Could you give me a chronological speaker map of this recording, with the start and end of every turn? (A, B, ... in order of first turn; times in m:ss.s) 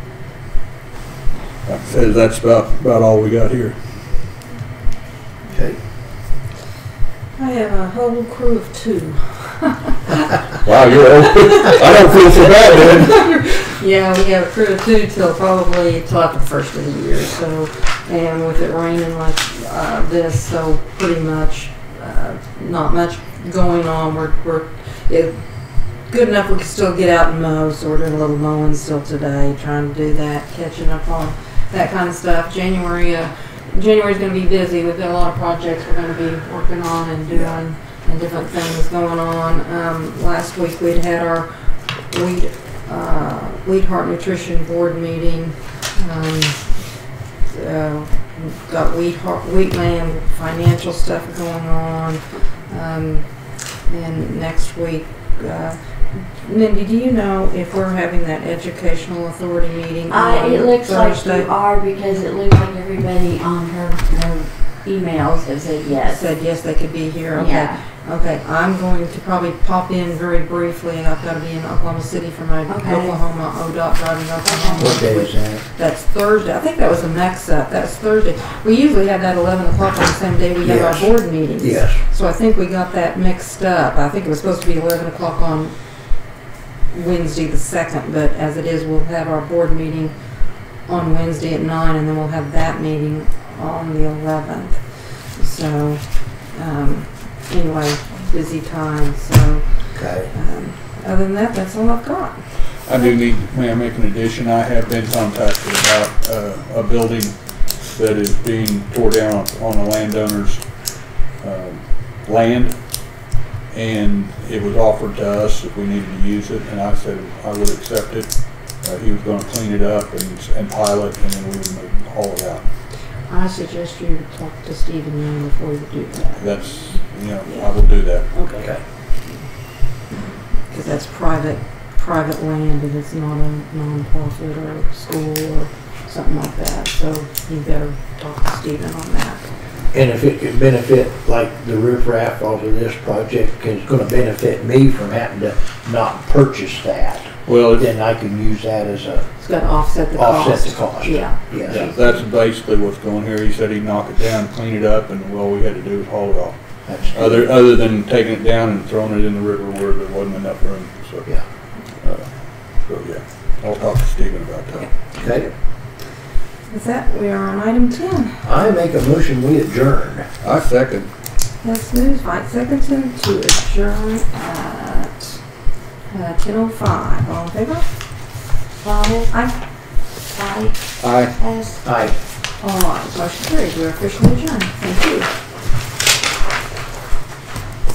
0:01.7-0:03.8 A
0:05.5-0:05.8 B
0:07.4-0:10.4 C
0:10.6-0:13.2 A
0:11.2-0:41.5 C
0:42.1-1:01.5 C
1:00.1-1:06.2 D
1:06.0-1:26.3 C
1:07.3-1:07.8 D
1:12.7-1:13.2 D
1:14.4-1:15.0 D
1:14.8-1:15.6 B
1:20.6-1:22.0 B
1:26.9-1:42.4 C
1:39.9-1:40.3 B
1:42.9-1:50.7 A
1:51.4-1:52.8 A
1:53.7-2:02.6 A
2:03.3-2:06.7 C
2:06.4-2:08.3 A
2:07.4-2:08.7 C
2:08.5-2:08.8 B
2:10.7-2:19.4 C
2:19.9-2:29.3 B
2:27.4-2:27.9 A
2:29.4-2:32.2 C
2:30.1-2:31.9 B
2:31.6-2:36.6 A
2:36.8-2:37.4 B
2:37.1-2:41.3 A
2:42.0-2:42.3 A
2:42.8-2:44.9 A
2:44.8-2:45.5 C
2:45.2-2:45.4 B
2:46.7-2:48.4 C
2:48.4-2:50.3 B
2:50.4-2:51.1 A
2:51.6-2:55.4 C
2:56.1-2:57.8 C
2:58.8-2:59.3 D
3:00.3-3:01.8 D
3:01.0-3:01.4 A
3:01.8-3:02.1 B
3:02.6-3:05.3 C